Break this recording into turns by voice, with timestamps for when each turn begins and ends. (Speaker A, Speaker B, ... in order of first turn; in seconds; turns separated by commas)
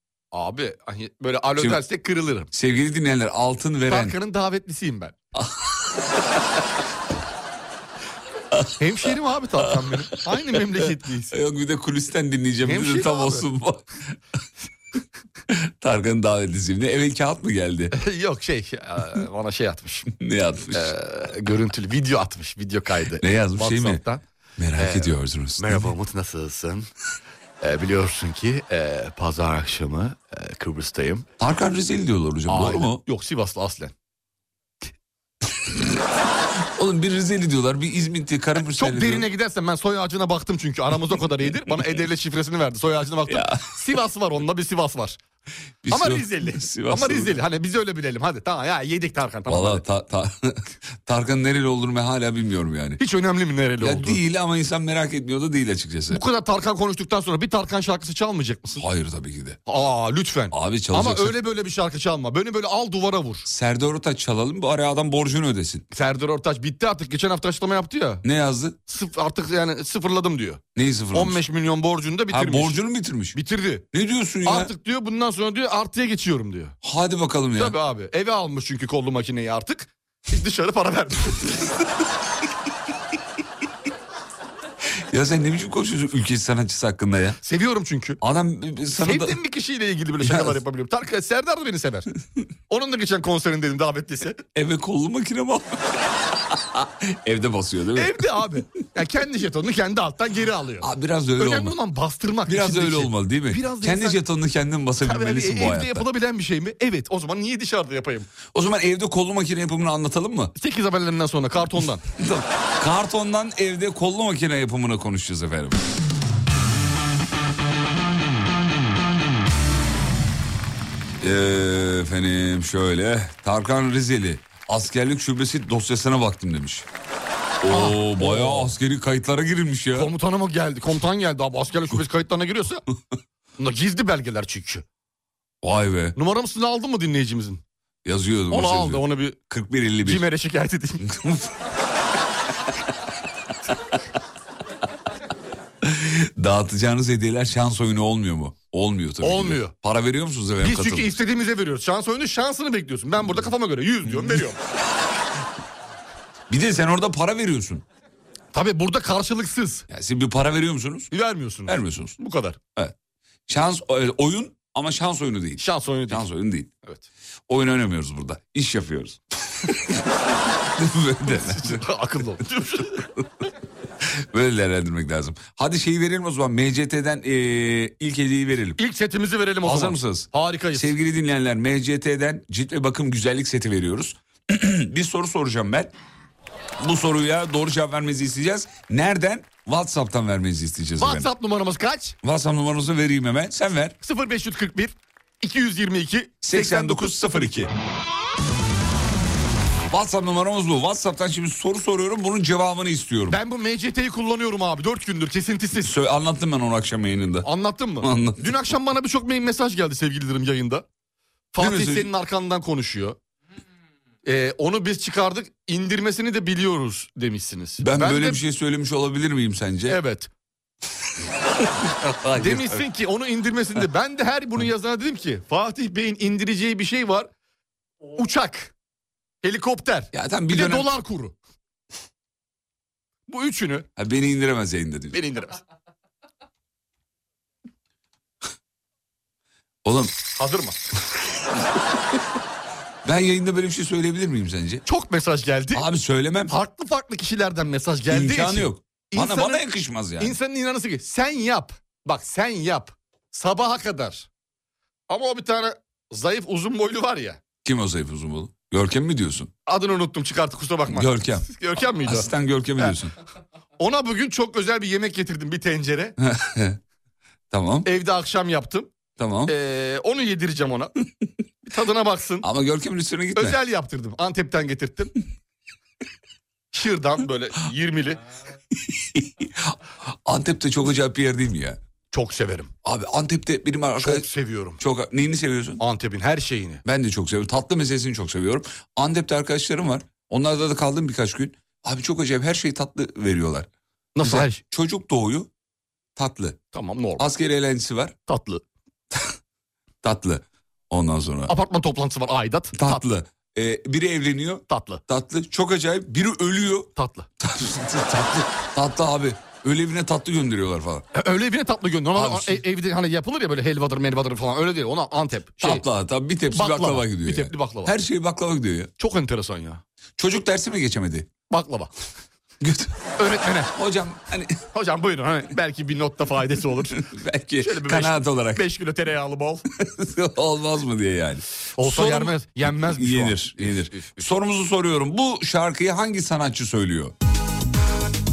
Speaker A: 0.3-2.5, Speaker B: 2.5-4.1, Speaker A: 3.9-5.2, Speaker B: 5.3-5.7, Speaker A: 8.8-11.3, Speaker B: 9.6-14.1, Speaker A: 12.6-13.4, Speaker B: 15.5-17.9, Speaker A: 17.9-20.1, Speaker B: 20.2-20.9, Speaker A: 20.7-24.2, Speaker B: 23.2-24.0, Speaker B: 24.6-25.9, Speaker A: 24.8-26.9, Speaker A: 27.6-31.2, Speaker B: 31.4-33.0, Speaker A: 32.5-33.9, Speaker B: 36.7-39.3, Speaker A: 38.6-45.2, Speaker B: 43.3-43.7, Speaker B: 45.8-47.4, Speaker A: 45.9-49.8, Speaker B: 49.5-53.0, Speaker A: 53.0-54.2, Speaker B: 53.8-56.2, Speaker A: 56.1-58.8, Speaker B: 58.8-59.6, Speaker A: 59.6-63.5, Speaker B: 60.5-61.4, Speaker B: 63.5-65.8, Speaker A: 65.9-68.2, Speaker B: 68.2-68.8, Speaker A: 68.9-70.6, Speaker B: 70.8-71.4, Speaker A: 71.1-72.8, Speaker B: 72.3-73.4, Speaker A: 73.3-73.8, Speaker B: 73.9-74.7, Speaker A: 74.4-76.7, Speaker B: 76.8-77.8, Speaker A: 77.5-81.7, Speaker B: 85.1-87.4, Speaker A: 87.4-88.2, Speaker B: 88.2-89.4, Speaker A: 89.0-92.1, Speaker B: 90.2-90.6, Speaker A: 92.7-94.4, Speaker B: 94.5-98.4, Speaker A: 97.9-104.2, Speaker B: 100.8-101.8, Speaker B: 102.5-106.0, Speaker A: 105.0-108.3, Speaker B: 108.5-110.5, Speaker A: 110.5-112.0, Speaker B: 112.2-115.8, Speaker B: 121.2-126.9, Speaker B: 127.6-130.1, Speaker A: 127.7-128.7, Speaker A: 129.9-132.8, Speaker A: 133.6-134.8, Speaker B: 135.6-136.2, Speaker A: 136.2-137.6, Speaker B: 138.0-140.3, Speaker A: 138.5-139.4, Speaker A: 140.0-141.1, Speaker B: 141.1-141.5, Speaker B: 145.8-151.2, Speaker A: 149.2-149.7, Speaker A: 150.6-154.6, Speaker B: 156.5-157.8, Speaker A: 158.5-159.8, Speaker B: 159.9-161.1, Speaker A: 161.1-162.6, Speaker B: 161.7-162.2, Speaker B: 163.5-166.7, Speaker A: 165.6-166.2, Speaker B: 167.5-170.0, Speaker B: 170.5-171.8, Speaker A: 171.3-173.1, Speaker B: 174.0-178.8, Speaker A: 178.8-180.9, Speaker B: 179.6-185.9, Speaker B: 186.8-191.3, Speaker A: 191.0-192.2, Speaker B: 192.2-193.9, Speaker A: 194.0-197.7, Speaker B: 196.4-197.7, Speaker B: 199.9-203.4, Speaker A: 203.3-205.9, Speaker B: 205.8-207.5, Speaker A: 207.4-210.8, Speaker B: 208.0-208.5, Speaker A: 211.5-213.2, Speaker B: 211.6-212.1, Speaker A: 214.2-218.4, Speaker B: 217.8-220.0, Speaker A: 219.9-220.3, Speaker B: 221.8-222.8, Speaker A: 222.3-227.3, Speaker A: 228.2-228.7, Speaker A: 229.4-231.3, Speaker B: 230.1-230.9, Speaker A: 233.3-233.9, Speaker B: 234.0-235.2, Speaker A: 235.1-235.6, Speaker B: 239.8-240.2, Speaker A: 240.3-240.8, Speaker B: 243.0-244.8, Speaker A: 244.8-245.8, Speaker B: 245.7-246.5, Speaker A: 246.5-249.6, Speaker B: 248.1-250.3, Speaker A: 250.2-254.3, Speaker A: 255.1-257.4, Speaker B: 257.6-259.5, Speaker A: 259.6-262.9, Speaker B: 260.9-263.1, Speaker A: 263.8-266.1, Speaker B: 266.2-266.8, Speaker B: 267.5-267.9, Speaker A: 267.8-268.9, Speaker B: 269.2-269.5, Speaker A: 269.5-270.9, Speaker A: 271.6-272.4, Speaker B: 272.4-273.6, Speaker A: 273.4-275.1, Speaker A: 276.7-278.2, Speaker B: 278.7-281.8, Speaker A: 282.1-282.7, Speaker B: 282.8-284.3, Speaker A: 284.0-284.8, Speaker B: 284.8-285.8, Speaker A: 285.8-286.8, Speaker B: 286.8-293.7, Speaker A: 294.1-294.6, Speaker B: 294.2-295.5, Speaker B: 296.1-296.6, Speaker A: 296.7-297.2, Speaker B: 297.2-298.1, Speaker A: 298.3-298.6, Speaker B: 300.0-301.5, Speaker A: 301.5-303.0, Speaker B: 302.7-311.1, Speaker A: 304.7-305.0, Speaker A: 306.9-307.3, Speaker A: 311.1-315.8, Speaker B: 312.1-312.6, Speaker B: 315.6-318.9, Speaker A: 316.5-317.9, Speaker A: 319.0-319.8, Speaker B: 320.2-321.3, Speaker A: 321.5-321.9, Speaker B: 322.6-323.0, Speaker A: 323.2-323.7, Speaker B: 323.7-324.6, Speaker A: 324.7-327.1, Speaker B: 327.0-328.6, Speaker A: 327.6-329.6, Speaker B: 329.8-337.1, Speaker A: 331.8-334.2